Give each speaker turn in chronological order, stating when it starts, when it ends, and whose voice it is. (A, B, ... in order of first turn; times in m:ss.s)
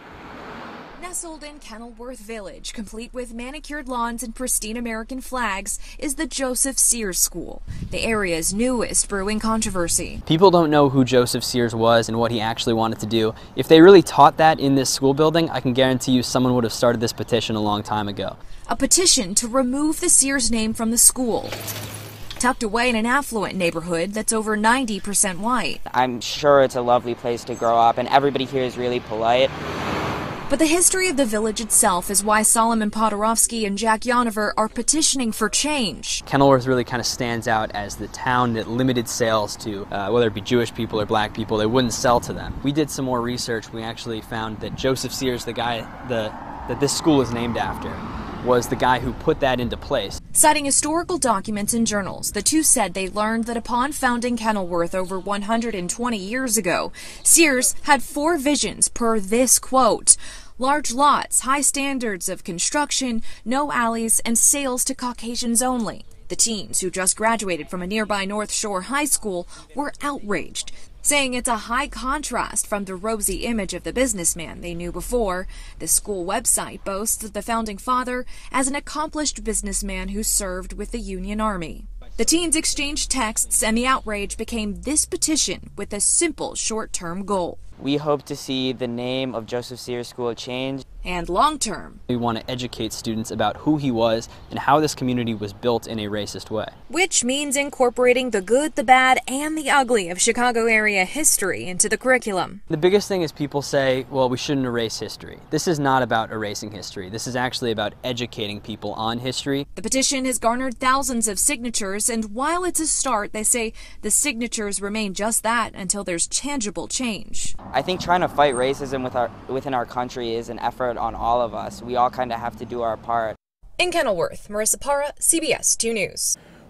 0:01.0-0:10.2 A
0:10.3-0:18.4 B
0:18.7-0:21.6 A
0:22.4-0:25.8 A
0:25.9-0:29.5 C
0:30.5-0:36.2 A
0:36.2-0:50.2 B
0:50.3-1:27.6 A
1:27.8-1:30.8 C
1:31.0-1:32.0 A
1:32.1-1:36.8 B
1:36.9-1:42.6 A
1:42.7-1:49.7 B
1:49.8-1:57.6 A
1:57.7-2:03.4 C
2:03.8-2:06.3 A